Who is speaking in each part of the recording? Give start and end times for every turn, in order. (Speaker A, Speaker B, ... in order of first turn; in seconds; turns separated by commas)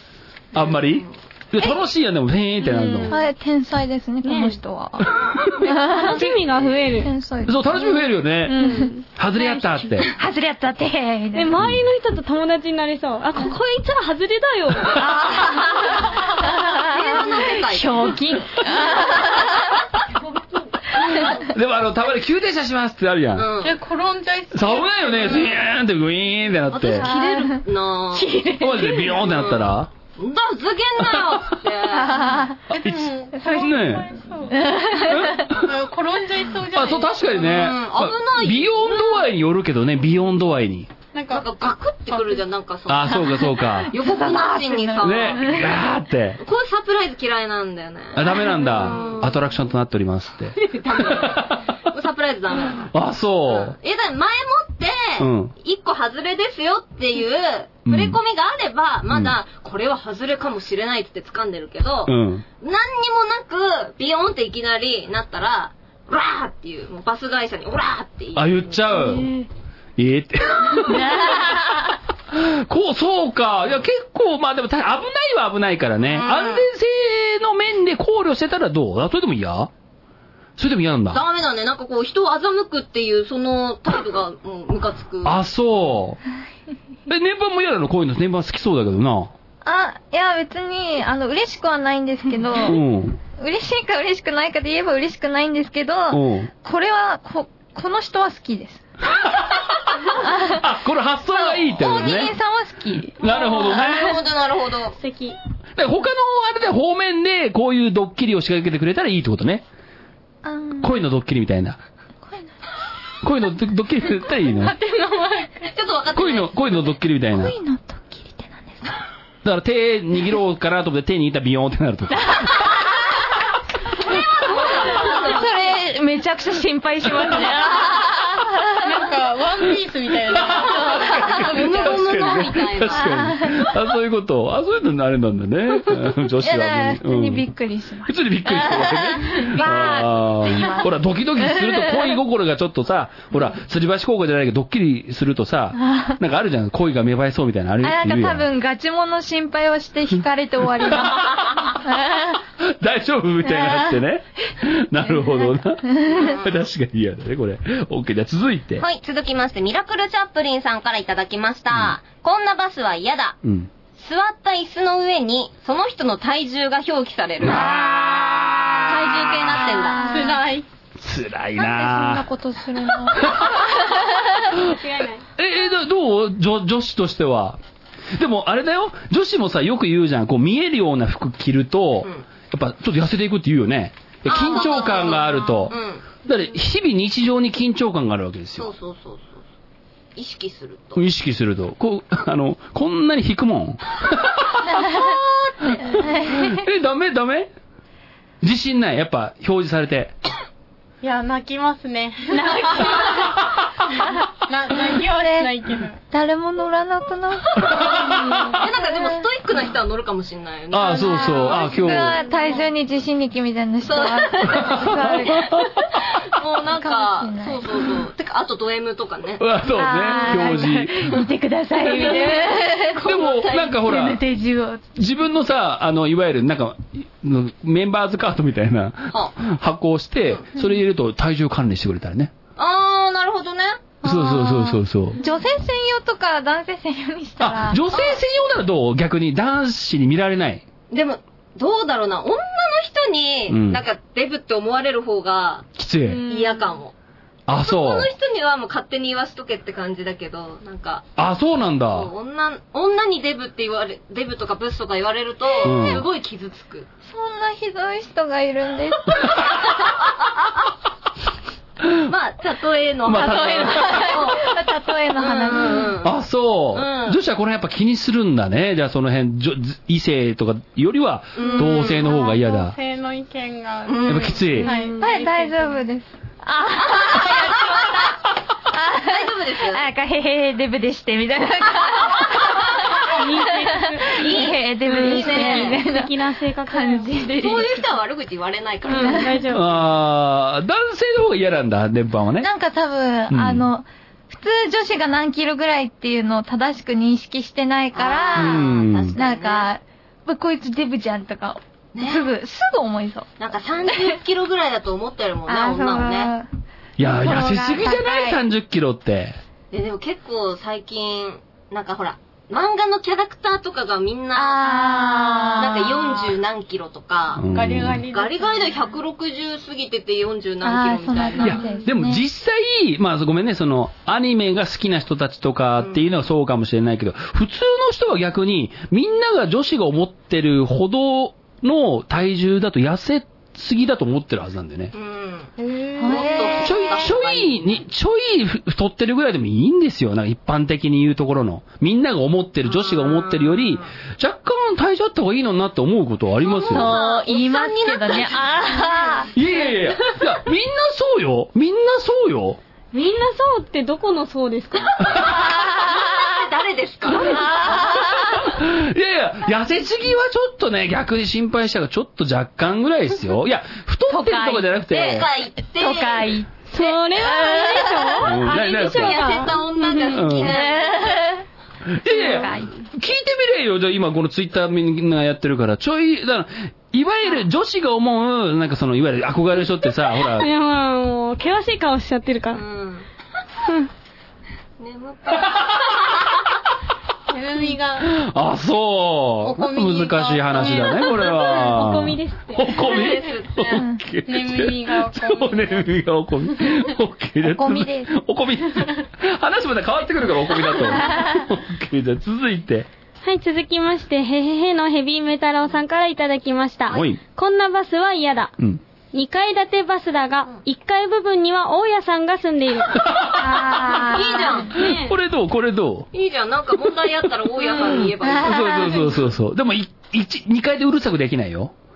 Speaker A: 0.5-3.2, Speaker B: 0.6-1.1, Speaker C: 2.7-3.1, Speaker D: 3.1-6.4, Speaker C: 4.2-4.6, Speaker C: 5.6-7.1, Speaker D: 6.9-11.6, Speaker A: 7.5-8.6, Speaker C: 8.5-9.1, Speaker A: 9.1-10.1, Speaker C: 11.3-15.4, Speaker D: 14.9-19.8, Speaker B: 16.7-18.2, Speaker C: 20.0-21.3, Speaker A: 21.0-23.5, Speaker B: 23.4-23.8, Speaker E: 23.6-25.6, Speaker A: 24.5-27.1, Speaker B: 26.7-28.4, Speaker D: 27.1-27.6, Speaker D: 28.1-29.2, Speaker A: 28.6-29.9, Speaker B: 29.3-32.5, Speaker A: 31.0-31.4, Speaker D: 31.9-32.6, Speaker A: 32.7-34.1, Speaker E: 32.8-34.8, Speaker D: 33.3-33.8, Speaker D: 34.5-35.5, Speaker A: 35.0-35.6, Speaker E: 35.3-37.6, Speaker A: 36.7-40.9, Speaker B: 37.3-39.3, Speaker E: 41.1-41.5, Speaker B: 41.3-45.8, Speaker E: 42.1-42.4, Speaker A: 42.9-43.9, Speaker D: 43.6-45.8, Speaker A: 45.0-46.4, Speaker B: 46.4-49.4, Speaker A: 48.1-51.8, Speaker B: 50.6-52.9, Speaker A: 52.9-53.8, Speaker B: 53.5-68.8, Speaker A: 55.2-55.5, Speaker A: 57.9-58.2, Speaker A: 62.0-62.4, Speaker A: 68.3-69.3, Speaker C: 69.1-69.5, Speaker A: 70.0-71.6, Speaker D: 70.8-71.7, Speaker A: 72.3-79.7, Speaker B: 76.1-76.7, Speaker A: 80.6-81.2, Speaker B: 81.1-85.3, Speaker A: 85.2-86.2, Speaker A: 87.1-89.3, Speaker D: 89.6-92.8, Speaker A: 92.6-93.2, Speaker D: 93.3-98.8, Speaker A: 96.1-96.5, Speaker A: 99.1-102.3, Speaker D: 100.1-100.6, Speaker D: 101.3-103.8, Speaker A: 103.2-104.1, Speaker B: 103.3-105.0, Speaker C: 103.3-103.7, Speaker C: 105.0-105.4, Speaker A: 105.8-109.6, Speaker D: 110.4-110.9, Speaker A: 110.8-111.8, Speaker D: 112.2-112.5, Speaker A: 113.2-114.7, Speaker E: 114.4-115.7, Speaker B: 115.7-116.8, Speaker A: 116.1-117.5, Speaker D: 117.3-119.0, Speaker A: 119.4-122.6, Speaker D: 122.3-123.1, Speaker B: 124.0-125.7, Speaker D: 124.8-128.9, Speaker E: 128.8-132.2, Speaker A: 130.3-137.5, Speaker B: 130.7-133.2, Speaker D: 133.1-133.6, Speaker D: 136.4-142.2, Speaker A: 138.1-148.5, Speaker D: 147.8-152.4, Speaker A: 150.9-151.7, Speaker A: 152.6-158.8, Speaker D: 153.4-154.0, Speaker D: 155.0-156.3, Speaker B: 156.1-156.6, Speaker B: 158.8-163.4, Speaker A: 163.4-163.7, Speaker B: 164.0-167.7, Speaker A: 167.4-169.3, Speaker D: 167.6-170.4, Speaker B: 168.8-170.0, Speaker E: 170.0-170.7, Speaker A: 171.0-172.3, Speaker D: 171.6-174.3, Speaker A: 172.9-173.6, Speaker C: 174.6-175.2, Speaker A: 175.4-177.6, Speaker A: 178.2-188.7, Speaker B: 184.2-186.0, Speaker B: 188.6-189.4, Speaker B: 190.1-191.0, Speaker A: 190.9-194.8, Speaker B: 194.7-195.9, Speaker D: 195.9-196.5, Speaker A: 196.1-197.5, Speaker A: 198.4-200.1, Speaker E: 201.0-203.3, Speaker D: 202.3-203.3, Speaker E: 204.5-206.0, Speaker D: 204.9-205.6, Speaker D: 206.1-209.3, Speaker A: 207.6-208.2, Speaker B: 208.1-212.0, Speaker A: 210.7-212.2, Speaker D: 210.8-215.6, Speaker B: 213.8-215.3, Speaker A: 214.5-215.9, Speaker B: 216.0-219.5, Speaker D: 216.7-217.8, Speaker A: 219.4-221.2, Speaker D: 219.7-223.1, Speaker B: 220.0-220.5, Speaker B: 221.8-223.8, Speaker A: 223.0-224.2, Speaker D: 223.8-225.0, Speaker A: 224.9-232.3, Speaker B: 232.6-233.9, Speaker A: 234.0-235.2, Speaker D: 234.0-237.8, Speaker A: 237.4-240.6, Speaker B: 237.9-238.2, Speaker B: 240.9-245.7, Speaker A: 243.5-243.8, Speaker A: 245.8-246.2, Speaker D: 246.1-246.7, Speaker B: 246.3-246.9, Speaker A: 247.5-248.1, Speaker B: 247.5-251.1, Speaker A: 251.2-252.1, Speaker B: 251.9-256.9, Speaker A: 255.6-256.1, Speaker D: 255.7-256.0, Speaker D: 257.1-259.6, Speaker A: 259.1-259.5, Speaker B: 259.8-260.1, Speaker A: 261.8-262.1, Speaker B: 262.1-264.4, Speaker A: 263.0-264.1, Speaker D: 263.1-266.0, Speaker B: 265.1-266.1, Speaker A: 266.0-272.8, Speaker B: 266.7-267.2, Speaker B: 271.4-272.1, Speaker E: 271.5-275.8, Speaker B: 273.9-274.4, Speaker A: 274.1-274.7, Speaker C: 274.6-275.2, Speaker D: 274.7-278.2, Speaker B: 276.8-278.2, Speaker D: 278.7-287.9, Speaker B: 279.0-279.9, Speaker C: 283.0-287.5, Speaker B: 284.0-285.8, Speaker B: 287.3-289.5, Speaker C: 288.9-289.8, Speaker D: 288.9-289.4, Speaker A: 289.5-292.5, Speaker D: 292.4-303.3, Speaker A: 293.3-293.7, Speaker B: 297.9-299.7, Speaker A: 298.4-299.1, Speaker B: 301.9-302.3, Speaker B: 303.4-306.3, Speaker D: 303.9-304.1, Speaker D: 305.5-306.5, Speaker A: 307.0-309.4, Speaker D: 307.1-308.4, Speaker B: 309.7-317.4, Speaker D: 314.3-316.3, Speaker A: 317.4-318.0, Speaker E: 317.5-318.9, Speaker B: 318.1-321.6, Speaker D: 320.6-322.2, Speaker A: 321.4-334.9, Speaker B: 325.8-326.0, Speaker B: 334.9-337.8, Speaker E: 335.6-336.3, Speaker D: 336.0-337.1, Speaker A: 336.6-346.9, Speaker B: 342.6-343.9, Speaker B: 346.4-350.2, Speaker D: 346.6-349.3, Speaker A: 349.3-352.6, Speaker C: 352.9-355.4, Speaker B: 355.0-357.5, Speaker D: 355.3-356.2, Speaker D: 357.1-358.5, Speaker C: 357.4-357.8, Speaker A: 357.9-365.3, Speaker D: 364.1-368.2, Speaker B: 364.9-366.4, Speaker C: 366.7-370.3, Speaker A: 368.2-369.2, Speaker B: 368.4-371.3, Speaker A: 370.1-370.5, Speaker D: 370.4-371.4, Speaker A: 371.9-380.5, Speaker D: 372.1-372.7, Speaker C: 380.3-382.6, Speaker B: 382.5-383.1, Speaker B: 384.8-386.4, Speaker A: 385.4-386.1, Speaker E: 387.3-388.1, Speaker A: 388.0-402.9, Speaker E: 389.4-391.5, Speaker C: 390.7-393.0, Speaker B: 392.8-393.8, Speaker D: 393.7-394.0, Speaker E: 394.3-395.9, Speaker D: 397.4-398.1, Speaker D: 401.1-401.4, Speaker C: 403.2-408.6, Speaker A: 406.9-407.2, Speaker C: 409.1-413.1, Speaker A: 413.0-414.1, Speaker D: 413.3-414.7, Speaker B: 414.0-414.8, Speaker C: 414.7-415.1, Speaker A: 414.7-416.1, Speaker B: 416.1-419.0, Speaker A: 417.9-421.7, Speaker D: 418.2-419.3